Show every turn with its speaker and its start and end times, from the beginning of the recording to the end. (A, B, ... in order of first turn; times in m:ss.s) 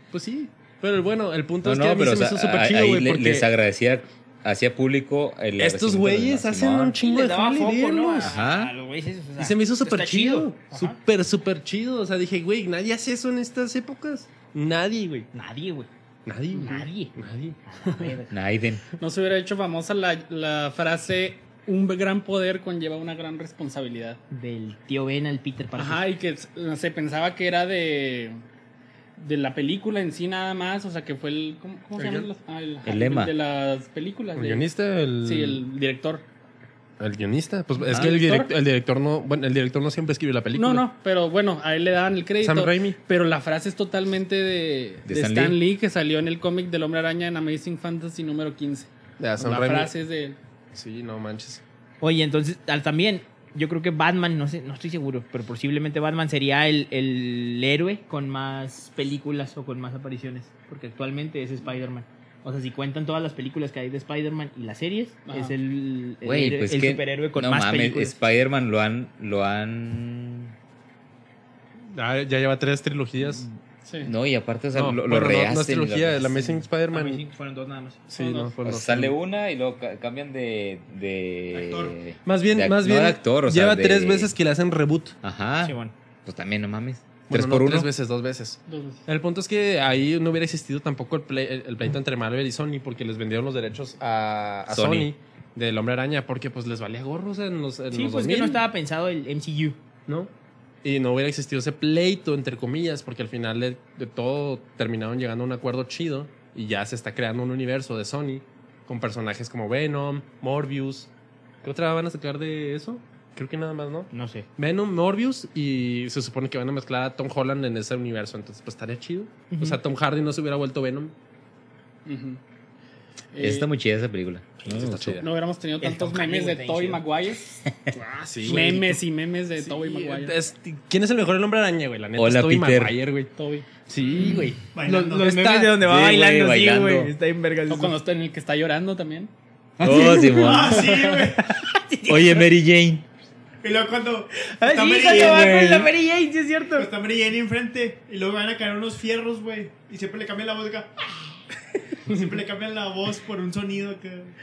0:00.1-0:03.5 A
0:01.6-0:07.0 B
0:05.6-0:08.3 A
0:07.0-0:11.0 C
0:08.2-0:08.7 B
0:09.4-0:15.3 A
0:15.3-0:15.9 C
0:16.2-0:17.6 A
0:16.5-0:17.1 C
0:16.6-0:16.9 D
0:17.6-0:18.3 C
0:18.3-0:18.8 B
0:19.0-0:24.2 D
0:24.3-0:26.0 C
0:25.8-0:28.4 D
0:29.2-0:34.6 D
0:32.0-0:32.3 A
0:32.8-0:33.3 B
0:34.4-0:35.6 A
0:35.2-0:36.2 D
0:37.0-0:40.8 A
0:37.9-0:38.5 D
0:40.5-0:50.4 D
0:42.4-0:43.0 A
0:45.1-0:45.6 B
0:49.2-0:49.9 A
0:50.7-0:51.6 A
0:52.0-1:08.2 C
1:05.3-1:05.5 D
1:06.2-1:10.5 B
1:11.9-1:13.4 A
1:13.8-1:14.1 D
1:14.0-1:16.5 B
1:14.7-1:17.2 A
1:16.9-1:18.0 C
1:18.1-1:19.1 A
1:18.2-1:18.5 D
1:18.6-1:24.3 B
1:21.5-1:21.9 E
1:22.2-1:25.1 A
1:25.2-1:27.9 B
1:25.6-1:25.9 C
1:27.3-1:38.6 A
1:28.7-1:29.0 D
1:34.7-1:35.1 B
1:37.9-1:39.8 C
1:40.8-1:51.1 A
1:51.6-2:01.1 A
1:54.1-1:54.4 C
1:59.5-1:59.8 C
2:02.0-2:02.4 D
2:03.3-2:03.7 D
2:03.4-2:05.2 B
2:04.6-2:05.3 A
2:05.2-2:07.6 D
2:05.8-2:07.0 C
2:07.9-2:09.0 A
2:08.4-2:10.4 D
2:08.4-2:08.9 C
2:09.6-2:13.3 A
2:12.2-2:12.9 B
2:13.4-2:13.7 D
2:13.9-2:14.6 A
2:14.2-2:18.0 C
2:14.7-2:15.5 E
2:15.8-2:17.1 B
2:17.7-2:19.3 D
2:19.8-2:22.4 C
2:19.8-2:21.0 B
2:19.9-2:21.6 E
2:20.9-2:21.3 D
2:22.0-2:23.0 B
2:23.6-2:25.9 E
2:24.6-2:26.9 C
2:26.7-2:31.1 E
2:32.0-2:34.3 E